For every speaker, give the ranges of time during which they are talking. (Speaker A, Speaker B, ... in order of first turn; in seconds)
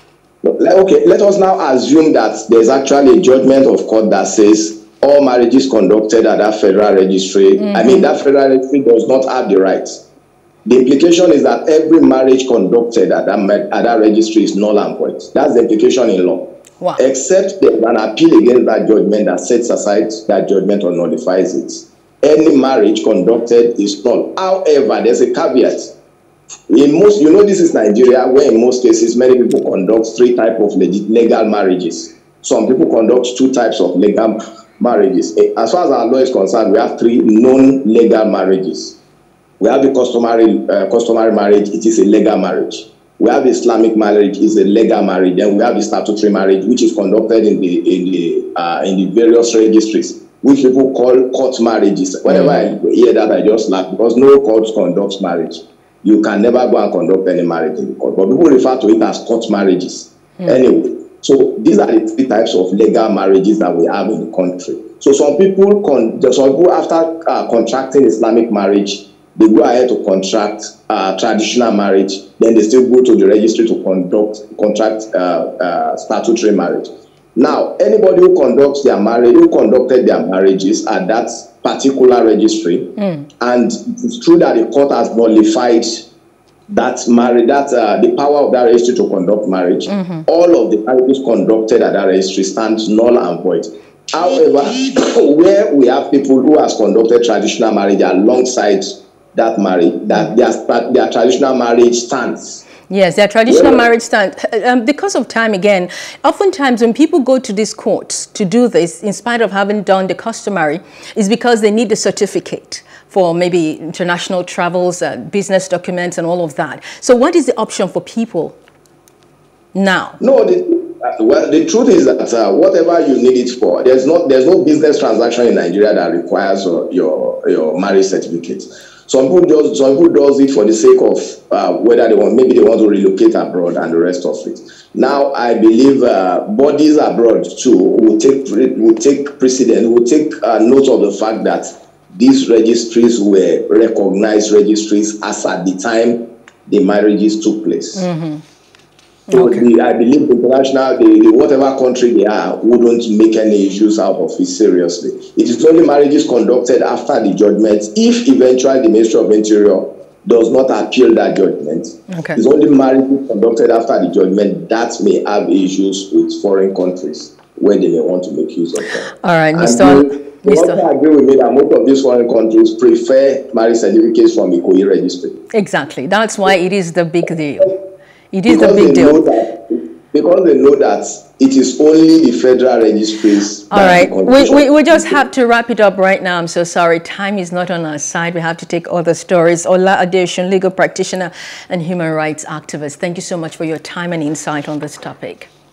Speaker A: 0.4-10.0, 10.6-16.4, 17.0-25.9, 26.7-39.0, 39.6-82.9, 83.4-86.0, 86.7-102.7, 103.5-103.8, 120.2-148.1, 149.3-175.3, 178.5-185.2
Speaker B: 7.6-8.1, 52.3-52.6, 83.0-83.3, 89.9-90.2, 102.9-118.6, 119.7-120.2, 147.9-148.4, 149.3-149.6, 162.1-162.4, 169.2-170.8, 175.5-177.8, 178.3-179.2, 183.7-195.5